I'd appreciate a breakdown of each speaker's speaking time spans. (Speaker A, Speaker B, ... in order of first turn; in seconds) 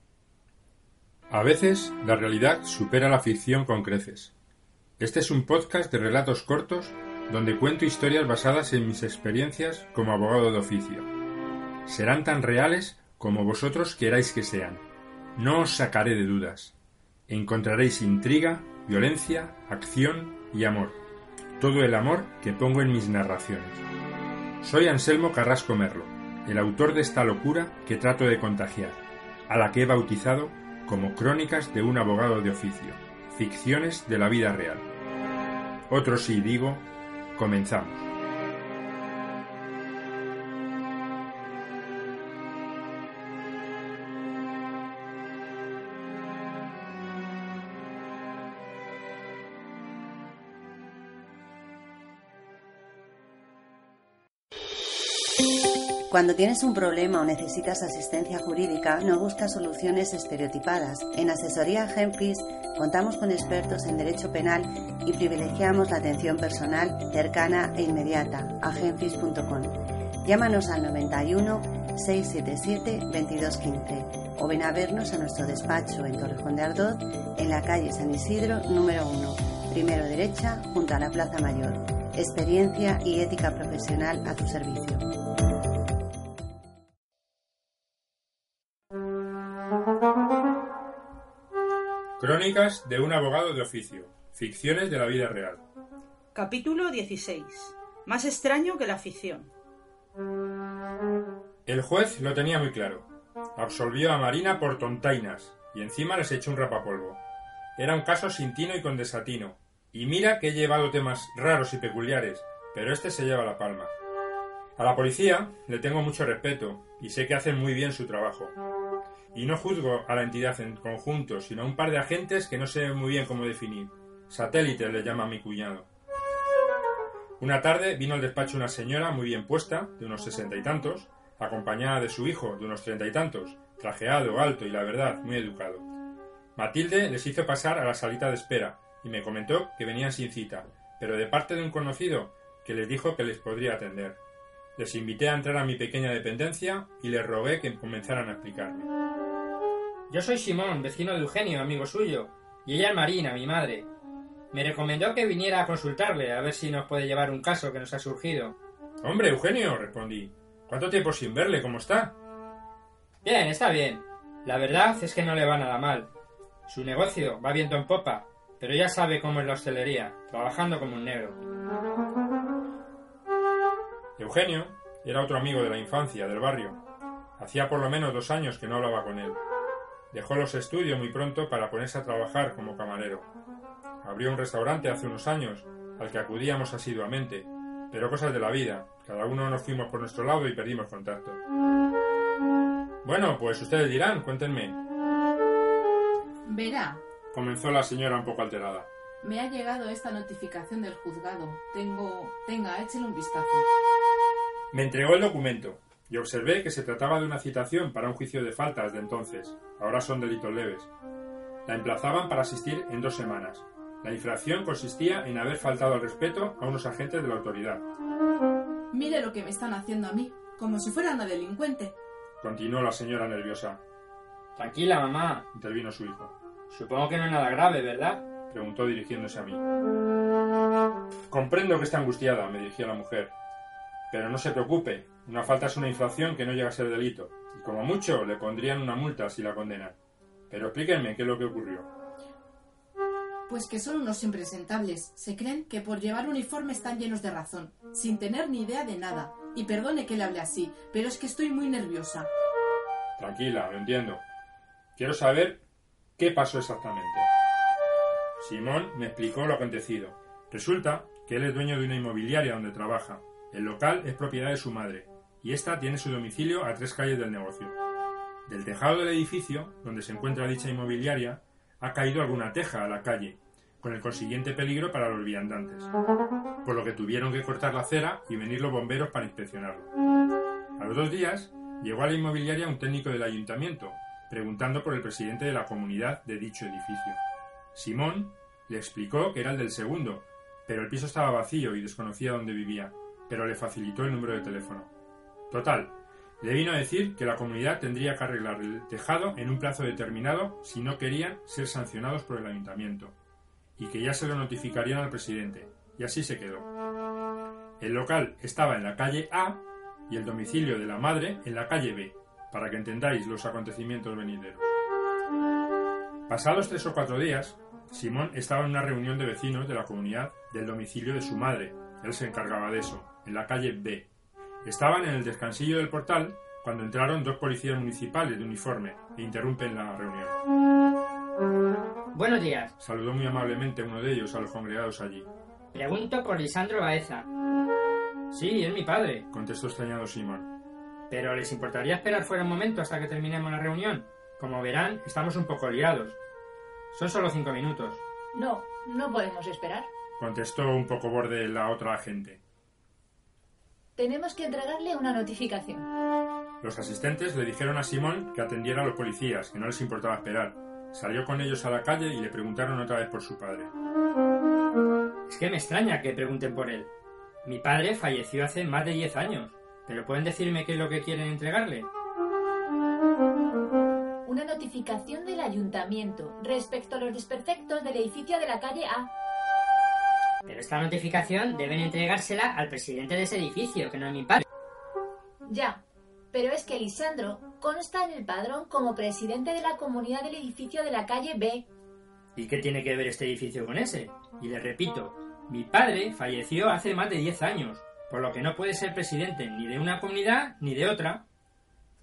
Speaker A: 1.3-4.3, 5.0-11.1, 11.9-14.8, 15.4-16.8, 17.3-21.0, 21.6-23.8, 24.6-34.9, 35.9-38.1, 92.2-95.6, 101.7-107.2, 107.8-113.9, 114.8-118.5, 119.3-125.9, 127.4-135.8, 136.6-144.2, 144.8-148.9, 159.0-159.5, 174.2-176.8, 177.4-179.4, 180.1-183.3, 184.0-191.4, 193.0-194.8, 197.3-198.9, 204.7-210.9, 211.7-217.8, 222.4-223.8, 225.5-226.3, 228.4-229.6, 231.3-233.3, 234.1-240.0, 240.5-241.9, 253.2-254.2, 254.9-255.6, 256.2-257.3, 258.4-267.8, 268.5-275.9, 276.6-279.9, 280.8-287.2, 287.8-294.9, 295.5-303.1, 303.8-306.7, 307.8-314.7, 316.3-324.1, 324.6-330.4, 332.8-335.3, 339.3-340.5, 350.2-352.4, 356.6-363.7
Speaker B: 56.1-85.1
Speaker C: 96.3-99.5
Speaker D: 150.1-153.9, 154.5-158.5, 159.3-162.1, 163.2-166.1, 166.7-171.4, 224.6-225.5, 226.7-228.4, 332.1-332.8, 335.7-337.2, 338.3-339.3, 341.1-346.2, 346.9-348.0, 365.3-366.9, 367.4-371.9, 380.4-384.4, 392.3-401.2
Speaker E: 196.4-197.0, 199.2-203.6, 218.9-221.9, 243.5-252.3
Speaker F: 348.3-349.9, 353.9-355.9, 374.2-379.1, 385.4-391.7